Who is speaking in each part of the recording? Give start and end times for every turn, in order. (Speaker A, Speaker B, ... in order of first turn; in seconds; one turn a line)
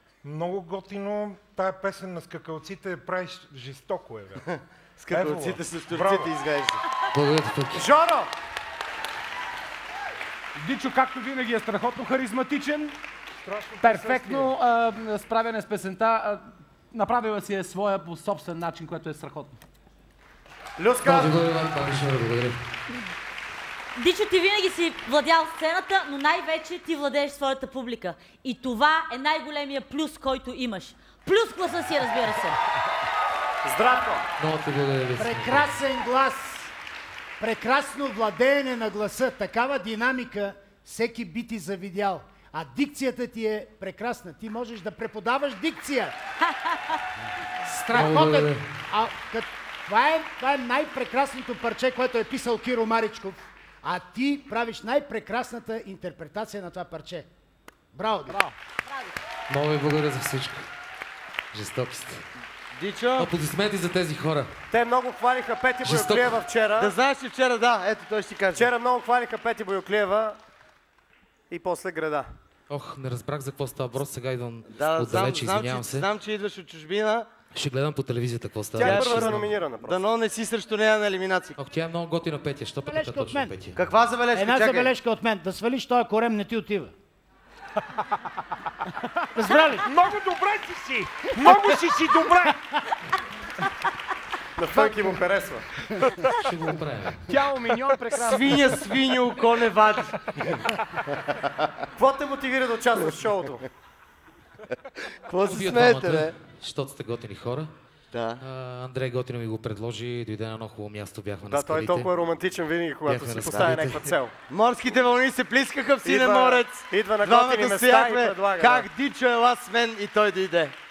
Speaker A: 0.2-4.4
Speaker B: 4.5-6.8
Speaker A: 5.1-6.3
Speaker C: 7.1-7.9
Speaker D: 7.7-8.3
Speaker E: 10.6-12.9
Speaker A: 13.4-14.5
Speaker E: 13.8-19.6
Speaker D: 20.8-21.3
Speaker C: 21.0-22.6
Speaker F: 23.9-32.6
Speaker D: 33.6-34.2
Speaker C: 34.4-35.7
Speaker G: 35.1-36.7
Speaker G: 37.4-46.1
Speaker C: 47.7-48.6
Speaker G: 47.9-57.3
Speaker G: 57.9-58.5
Speaker C: 59.5-60.6
Speaker C: 61.5-62.2
Speaker B: 62.7-63.3
Speaker C: 63.2-64.5
Speaker D: 64.7-66.9
Speaker C: 65.8-66.4
Speaker B: 66.8-68.7
Speaker D: 68.5-70.4
Speaker D: 71.5-72.3
Speaker C: 72.7-76.1
Speaker B: 74.7-77.3
Speaker C: 77.5-79.4
Speaker D: 78.8-80.0
Speaker B: 78.8-81.5
Speaker C: 81.6-83.8
Speaker G: 82.8-83.5
Speaker B: 83.8-84.9
Speaker G: 84.3-86.9
Speaker G: 89.3-89.9
Speaker A: 89.6-92.6
Speaker D: 94.6-95.7
Speaker C: 96.3-97.2
Speaker E: 97.3-98.8
Speaker B: 98.2-100.2
Speaker D: 102.0-103.7
Speaker B: 105.2-106.3
Speaker C: 105.4-107.7
Speaker B: 108.1-108.4
Speaker C: 108.4-112.1
Speaker D: 111.5-114.3
Speaker C: 113.0-114.1
Speaker B: 113.5-113.8
Speaker B: 114.5-120.7
Speaker D: 116.0-118.9